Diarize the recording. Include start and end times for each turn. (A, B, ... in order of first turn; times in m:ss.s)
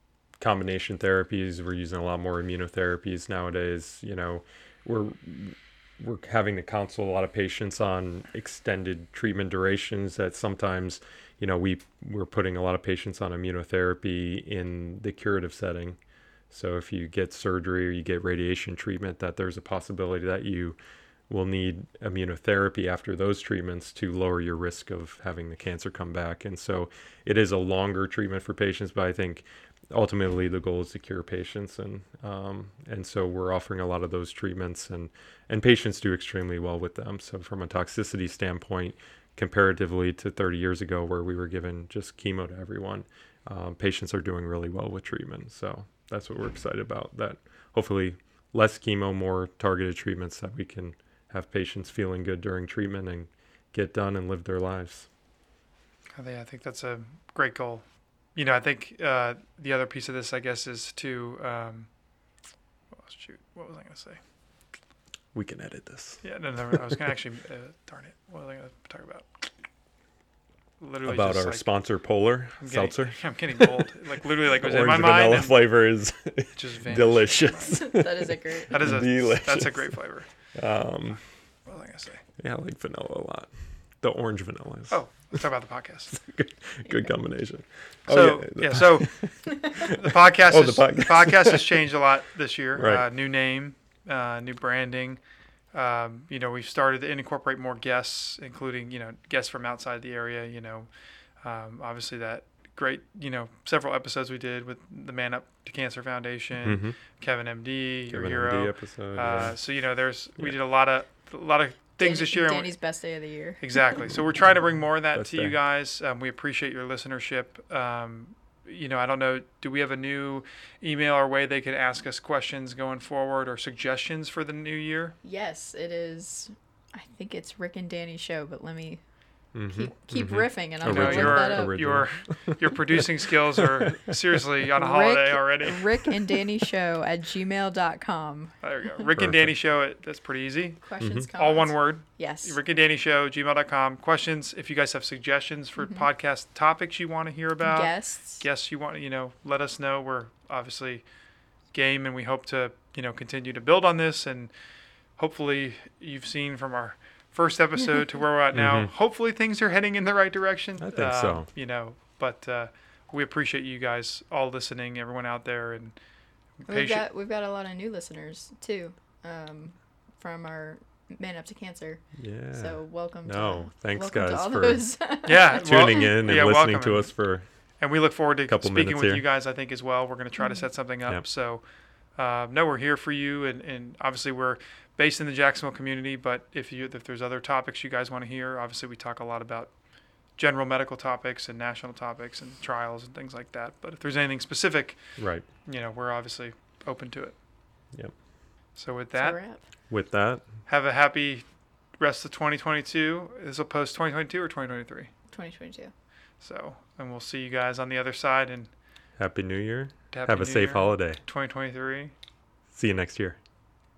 0:00.4-0:16.0 A
0:16.5-0:20.8 A
0:21.3-0:55.1 A
0:56.1-0:57.8 B
0:58.4-1:01.9 B
1:03.0-1:04.2 B
1:05.3-1:07.0 A
1:06.2-1:09.3 B
1:10.8-1:11.7 B
1:11.0-1:13.8 A
1:12.6-1:15.7 B
1:14.6-1:19.9 A
1:16.5-1:17.8 B
1:17.7-1:18.8 C
1:18.7-1:20.3 B
1:20.5-1:21.2 A
1:21.6-1:22.2 B
1:22.4-1:23.5 A
1:24.0-1:25.4 A
1:24.9-1:26.1 B
1:26.1-1:31.8 A
1:28.1-1:29.1 B
1:29.6-1:35.2 B
1:32.7-1:33.1 A
1:35.7-1:40.9 B
1:41.4-1:52.7 B
1:46.6-1:47.0 A
1:48.1-1:49.6 A
1:52.0-1:54.0 C
1:53.6-2:05.2 B
1:55.1-1:55.6 A
2:05.2-2:09.0 C
2:09.5-2:14.4 A
2:09.7-2:11.8 C
2:10.8-2:15.9 B
2:14.8-2:19.0 C
2:18.6-2:20.8 B
2:19.2-2:19.5 A
2:20.8-2:22.6 C
2:21.0-2:21.3 A
2:21.3-2:31.0 B
2:25.8-2:26.1 C
2:27.6-2:28.4 C
2:31.7-2:34.5 B
2:35.2-2:46.0 B
2:38.5-2:38.9 A
2:40.8-2:41.5 A
2:46.6-2:47.1 B
2:46.7-2:52.0 C
2:52.2-2:54.9 A
2:52.5-2:56.1 C
2:55.2-2:57.1 B
2:55.5-2:57.4 A
2:57.8-3:01.6 B
2:58.5-2:59.3 A
3:00.4-3:00.7 C
3:02.2-3:09.7 B
3:10.4-3:15.0 B
3:15.2-3:15.4 A
3:15.6-3:17.4 B
3:18.8-3:19.4 B
3:19.2-3:19.6 C
3:19.9-3:20.4 A
3:20.7-3:21.4 B
3:22.0-3:25.1 B
3:25.3-3:25.9 C
3:26.4-3:28.7 B
3:29.2-3:31.2 A
3:30.1-3:32.1 B
3:32.7-3:33.4 A